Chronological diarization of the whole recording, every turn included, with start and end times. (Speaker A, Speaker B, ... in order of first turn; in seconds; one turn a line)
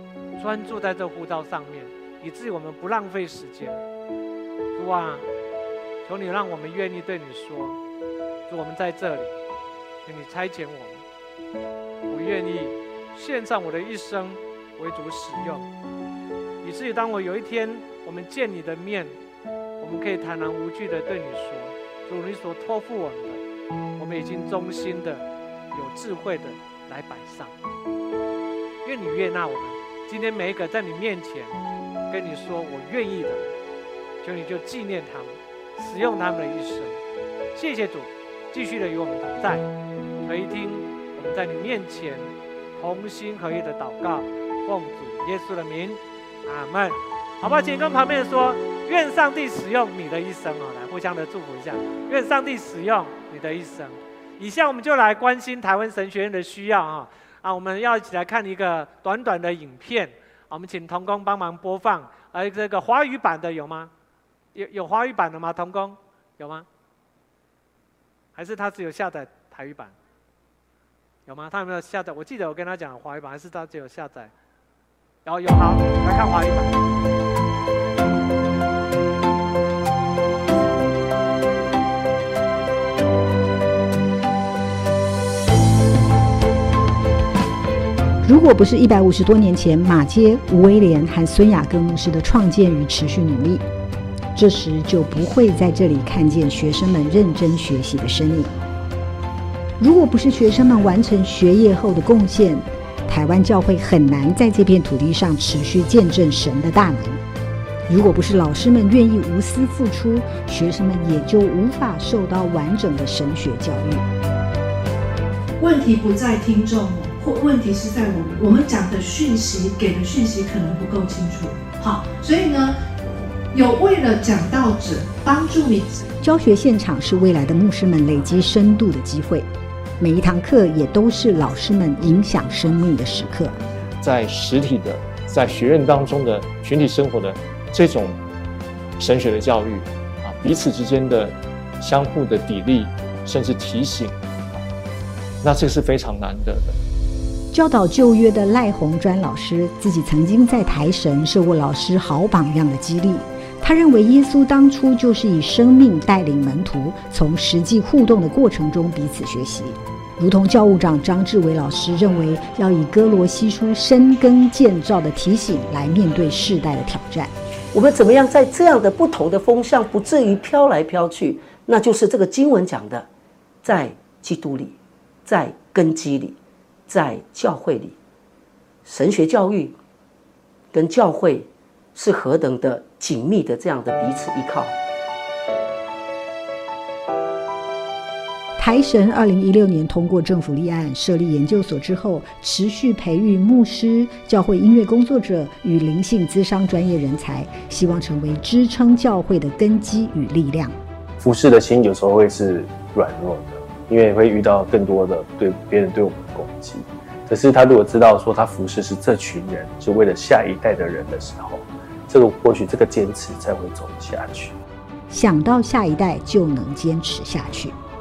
Speaker A: 0.4-3.8
Speaker A: 4.8-5.2
Speaker A: 6.0-7.8
Speaker A: 8.5-9.3
Speaker A: 10.1-11.0
Speaker A: 12.1-15.7
Speaker A: 16.6-19.1
Speaker A: 19.8-23.4
Speaker A: 24.0-27.5
Speaker A: 28.8-31.6
Speaker A: 32.1-33.5
Speaker A: 34.2-37.0
Speaker A: 37.5-39.7
Speaker A: 40.2-63.9
Speaker A: 64.5-66.7
Speaker A: 68.3-69.9
Speaker A: 71.3-74.3
Speaker A: 75.2-76.8
Speaker B: 88.2-93.6
Speaker B: 94.3-98.5
Speaker B: 99.8-107.2
Speaker B: 107.9-114.0
Speaker C: 115.6-122.8
Speaker C: 123.5-126.1
Speaker B: 126.2-129.5
Speaker B: 130.0-133.6
Speaker D: 134.0-138.2
Speaker D: 139.0-144.6
Speaker D: 145.4-146.8
Speaker B: 147.5-167.3
Speaker E: 167.7-173.1
Speaker E: 173.6-174.8
Speaker E: 175.3-176.4
Speaker E: 176.9-178.0
Speaker E: 178.8-179.8
Speaker E: 180.7-184.7
Speaker B: 188.6-200.8
Speaker F: 201.2-214.6
Speaker B: 215.1-217.8